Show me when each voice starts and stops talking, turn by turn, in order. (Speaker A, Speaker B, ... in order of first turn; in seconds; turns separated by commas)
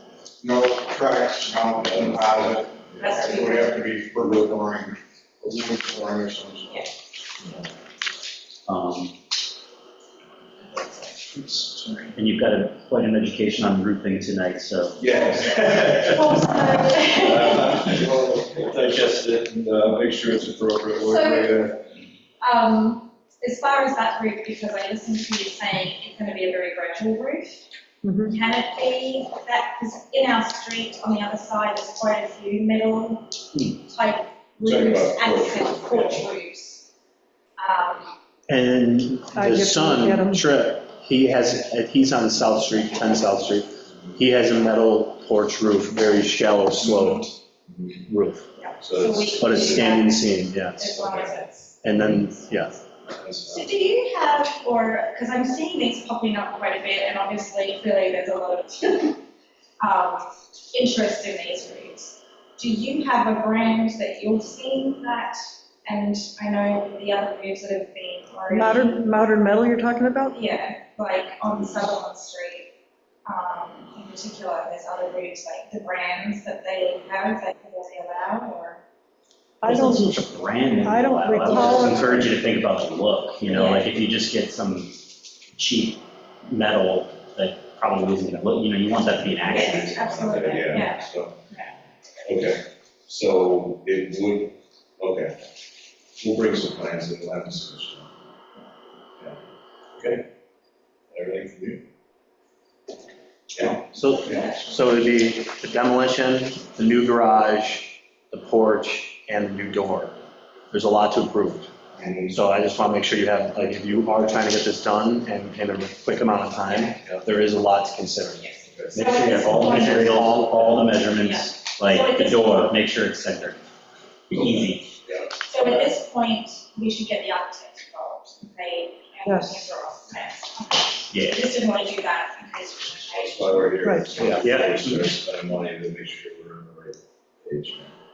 Speaker A: 0.4-2.5, Speaker B: 1.8-3.5, Speaker C: 3.0-3.8, Speaker A: 3.3-5.0, Speaker B: 5.4-5.9, Speaker A: 5.9-6.7, Speaker D: 8.7-9.1, Speaker B: 11.6-12.0, Speaker D: 12.1-15.0, Speaker B: 15.0-21.8, Speaker C: 15.0-18.1, Speaker C: 21.1-21.7, Speaker C: 22.4-27.6, Speaker E: 28.0-28.3, Speaker C: 28.2-36.9, Speaker B: 34.6-36.3, Speaker C: 37.6-38.1, Speaker F: 38.5-47.4, Speaker E: 39.3-40.4, Speaker C: 46.8-47.2, Speaker B: 47.7-48.0, Speaker F: 48.1-48.5, Speaker C: 48.5-51.8, Speaker B: 48.8-50.0, Speaker F: 49.4-51.0, Speaker B: 50.9-51.4, Speaker F: 51.8-52.8, Speaker B: 53.0-53.8, Speaker C: 53.5-59.2, Speaker C: 59.8-69.1, Speaker E: 68.5-70.4, Speaker C: 70.3-72.7, Speaker C: 73.2-78.8, Speaker E: 79.6-80.2, Speaker D: 79.7-84.9, Speaker E: 80.8-82.2, Speaker C: 81.6-82.0, Speaker C: 83.5-83.9, Speaker D: 85.5-90.1, Speaker C: 89.5-91.7, Speaker B: 90.0-91.3, Speaker B: 92.2-95.3, Speaker B: 96.2-98.1, Speaker B: 100.0-100.2, Speaker B: 101.1-101.8, Speaker B: 103.5-104.5, Speaker F: 103.8-110.2, Speaker C: 104.3-104.6, Speaker F: 110.7-111.7, Speaker B: 111.9-112.5, Speaker F: 112.3-121.0, Speaker C: 116.6-117.0, Speaker C: 118.4-120.0, Speaker B: 118.6-119.1, Speaker D: 119.1-123.6, Speaker C: 121.2-122.8, Speaker D: 124.3-124.9, Speaker B: 124.3-125.9, Speaker C: 125.4-134.8, Speaker E: 129.2-129.7, Speaker D: 131.1-131.5, Speaker B: 133.1-137.9, Speaker E: 133.8-134.1, Speaker F: 134.2-135.0, Speaker D: 134.5-134.7